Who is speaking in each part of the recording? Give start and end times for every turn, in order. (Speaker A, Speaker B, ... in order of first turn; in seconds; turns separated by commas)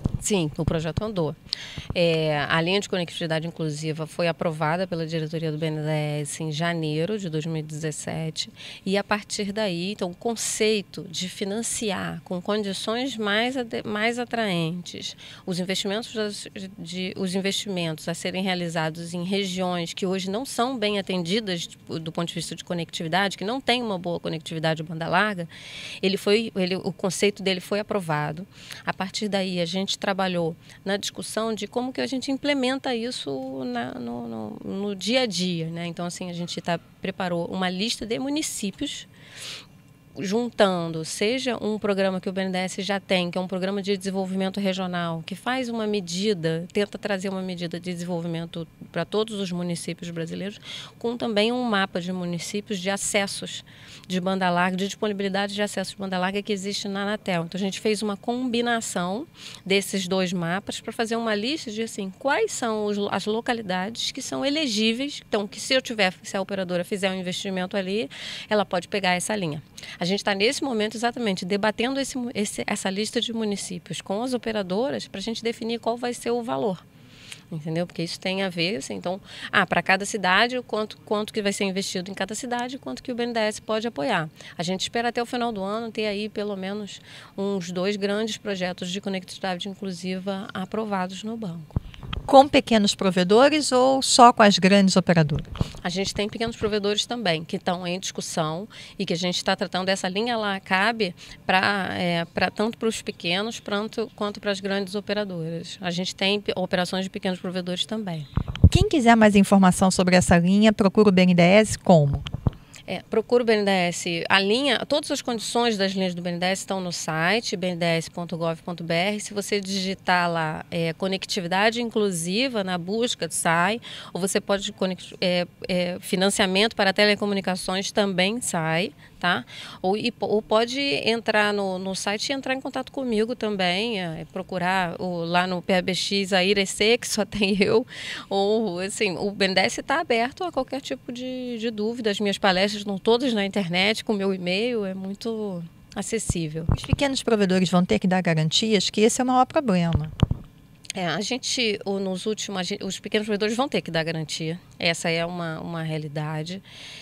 Speaker A: 0.2-1.4, Speaker A: 1.9-25.5, Speaker A: 26.0-39.1, Speaker A: 40.1-76.8, Speaker A: 77.5-91.8, Speaker B: 92.3-95.5, Speaker A: 95.8-108.3, Speaker B: 108.7-112.2, Speaker A: 112.9-146.7, Speaker B: 146.7-150.1, Speaker A: 150.9-156.6